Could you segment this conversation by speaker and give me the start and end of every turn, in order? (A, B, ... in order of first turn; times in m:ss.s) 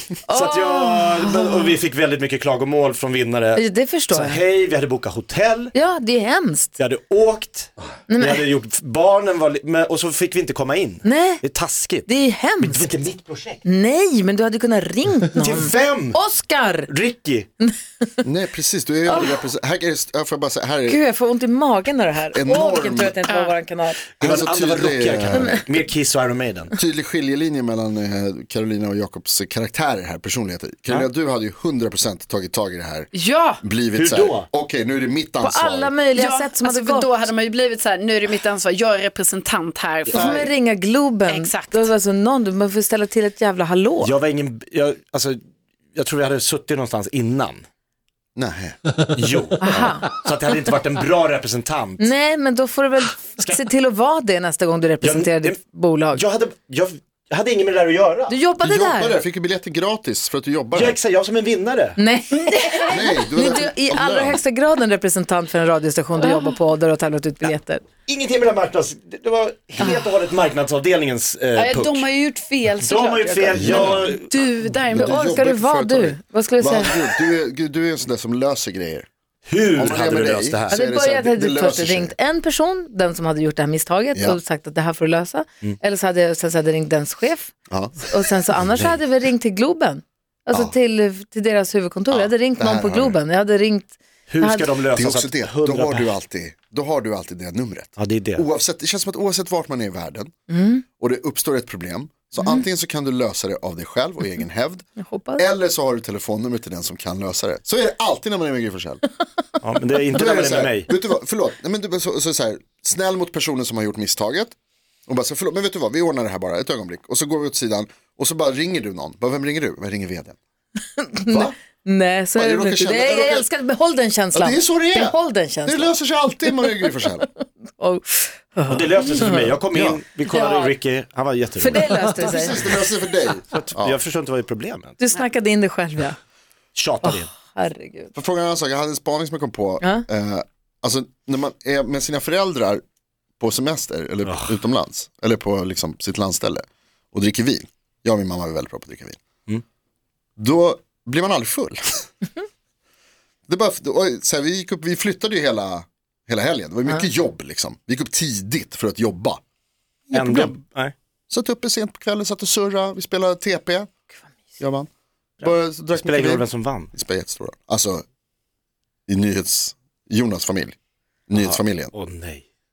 0:00.3-0:01.8 A
0:00.3-0:05.7 B
0:03.5-0:04.4 A
0:05.7-0:06.8 A
0:06.8-0:12.1 B
0:08.1-0:08.4 A
0:11.0-0:11.4 A
0:12.0-0:12.9 A
0:12.6-0:13.6 B
0:13.6-0:16.9 A
0:15.4-0:16.2 B
0:16.9-0:17.5 B
0:17.6-0:18.2 A
0:18.2-0:21.0 C
0:20.9-0:24.0 A
0:22.3-0:23.2 C
0:23.3-0:23.5 D
0:24.2-0:25.6 C
0:24.2-0:26.7 B
0:25.3-0:25.6 A
0:26.8-0:33.1 C
0:33.1-0:33.6 D
0:33.6-0:35.9 C
0:33.9-0:34.5 B
0:35.4-0:37.2 A
0:36.1-0:40.3 D
0:40.1-0:40.5 C
0:40.1-0:44.1 A
0:41.3-0:41.9 D
0:44.0-0:45.4 B
0:45.9-0:47.6 B
0:48.4-0:48.8 C
0:49.1-0:52.1 B
0:49.6-0:50.1 A
0:52.0-0:56.2 A
0:55.0-0:55.6 B
0:56.1-0:58.3 B
0:58.3-0:59.2 A
0:58.6-1:01.0 C
1:00.7-1:02.0 B
1:02.0-1:07.8 A
1:02.9-1:04.4 C
1:06.2-1:06.5 D
1:08.1-1:12.0 B
1:11.6-1:15.2 D
1:12.8-1:14.4 B
1:13.6-1:14.0 C
1:14.9-1:19.1 C
1:14.9-1:17.2 A
1:19.5-1:20.8 B
1:19.8-1:22.1 C
1:20.7-1:34.7 A
1:27.7-1:28.6 C
1:30.5-1:30.7 C
1:32.1-1:33.2 C
1:34.3-1:36.1 B
1:34.9-1:40.3 C
1:38.0-1:38.4 B
1:40.5-1:40.8 A
1:41.0-1:44.8 C
1:45.0-1:45.4 A
1:45.4-1:49.0 C
1:49.6-1:50.9 B
1:50.1-1:54.5 C
1:55.1-2:00.4 C
2:01.0-2:05.9 A
2:01.3-2:01.6 C
2:02.3-2:03.5 C
2:04.3-2:07.3 C
2:07.8-2:09.5 A
2:08.7-2:12.1 B
2:09.7-2:10.0 C
2:10.3-2:10.7 D
2:11.6-2:12.9 A
2:12.0-2:14.0 C
2:13.5-2:15.0 B
2:15.0-2:16.2 A
2:16.7-2:17.3 B
2:17.0-2:18.1 A
2:18.1-2:22.8 C
2:19.8-2:20.0 A
2:23.4-2:29.2 C
2:24.2-2:24.6 B
2:30.4-2:32.0 C
2:33.5-2:39.4 C
2:40.1-2:40.5 C
2:40.1-2:40.9 B
2:41.3-2:43.9 C
2:44.6-2:44.9 C
2:45.4-2:48.0 C
2:45.9-2:46.9 B
2:49.1-2:50.8 C
2:51.3-2:51.9 C
2:51.3-2:52.4 B